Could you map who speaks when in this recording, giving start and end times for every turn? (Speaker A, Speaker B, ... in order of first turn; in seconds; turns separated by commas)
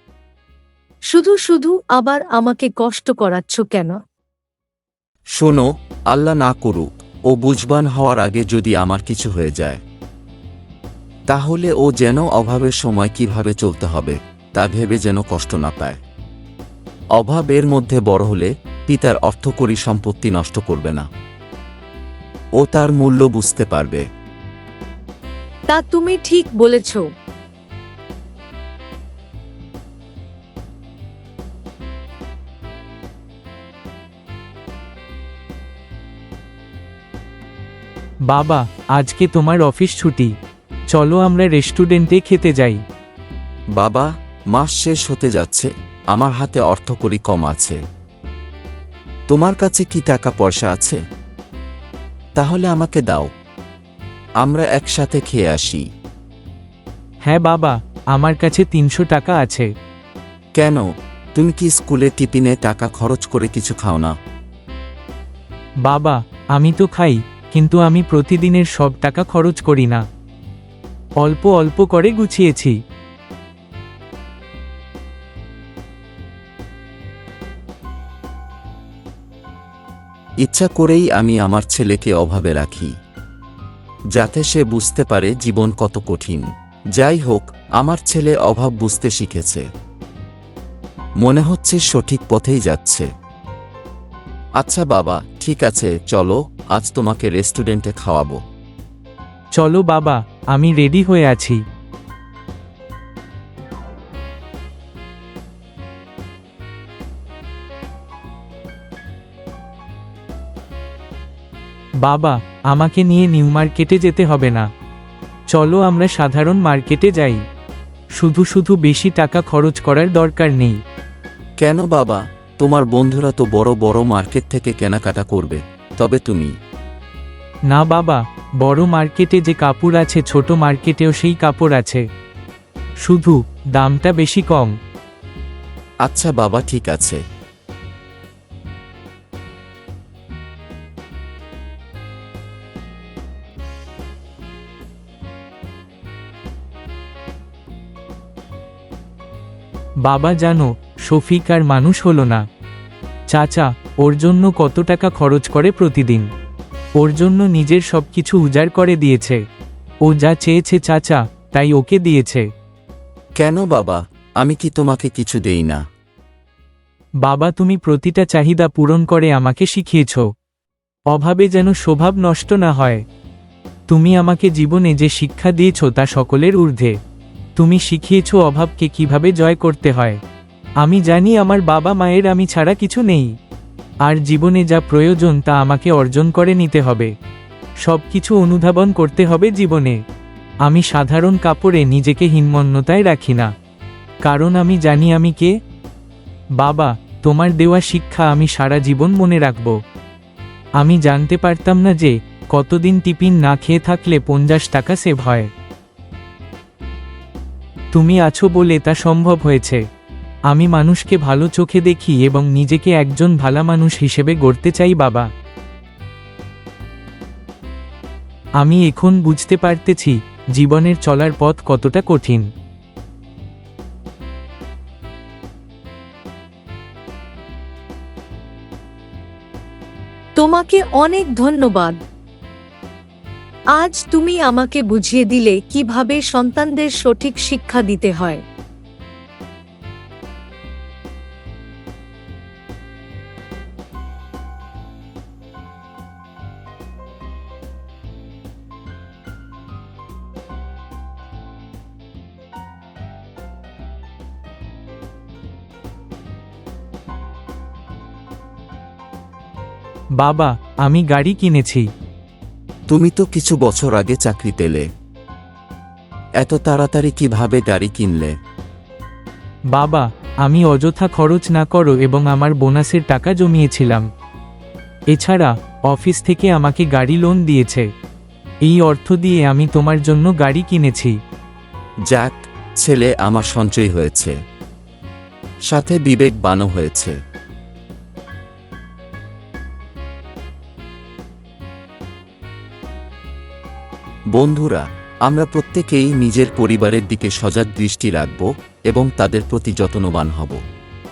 Speaker A: 1.1-3.9, Speaker B: 5.4-9.8, Speaker B: 11.3-16.0, Speaker B: 17.2-21.1, Speaker B: 22.6-24.0, Speaker A: 25.7-27.1, Speaker C: 38.3-40.3, Speaker C: 40.9-42.8, Speaker B: 43.8-47.8, Speaker B: 49.3-51.0, Speaker B: 52.4-53.3, Speaker B: 54.4-55.8, Speaker C: 57.3-59.7, Speaker B: 60.6-64.1, Speaker C: 65.8-70.0, Speaker C: 71.2-72.7, Speaker B: 80.4-82.9, Speaker B: 84.1-89.6, Speaker B: 91.2-93.1, Speaker B: 94.6-98.4, Speaker C: 99.6-101.6, Speaker C: 112.0-114.7, Speaker C: 115.5-117.4, Speaker C: 118.2-120.8, Speaker B: 121.6-126.5, Speaker C: 127.7-132.0, Speaker C: 133.0-134.7, Speaker B: 136.0-137.2, Speaker C: 150.0-152.4, Speaker C: 153.3-156.3, Speaker C: 157.0-159.4, Speaker C: 160.0-162.4, Speaker B: 163.4-165.8, Speaker C: 167.2-170.3, Speaker C: 171.1-173.0, Speaker C: 173.9-176.9, Speaker C: 177.6-180.2, Speaker C: 180.8-183.3, Speaker C: 184.1-187.1, Speaker C: 187.8-190.0, Speaker C: 190.6-193.5, Speaker C: 194.2-195.5, Speaker C: 196.6-199.7, Speaker C: 200.8-205.5, Speaker C: 207.9-209.8, Speaker C: 210.5-215.3, Speaker C: 218.6-222.4, Speaker A: 230.4-232.0, Speaker A: 233.8-238.4, Speaker C: 260.2-261.9, Speaker B: 262.9-264.8, Speaker B: 266.4-268.3, Speaker C: 269.7-274.0, Speaker C: 275.1-277.9, Speaker C: 278.6-281.1, Speaker B: 282.1-284.4, Speaker B: 285.7-287.2, Speaker B: 294.3-300.6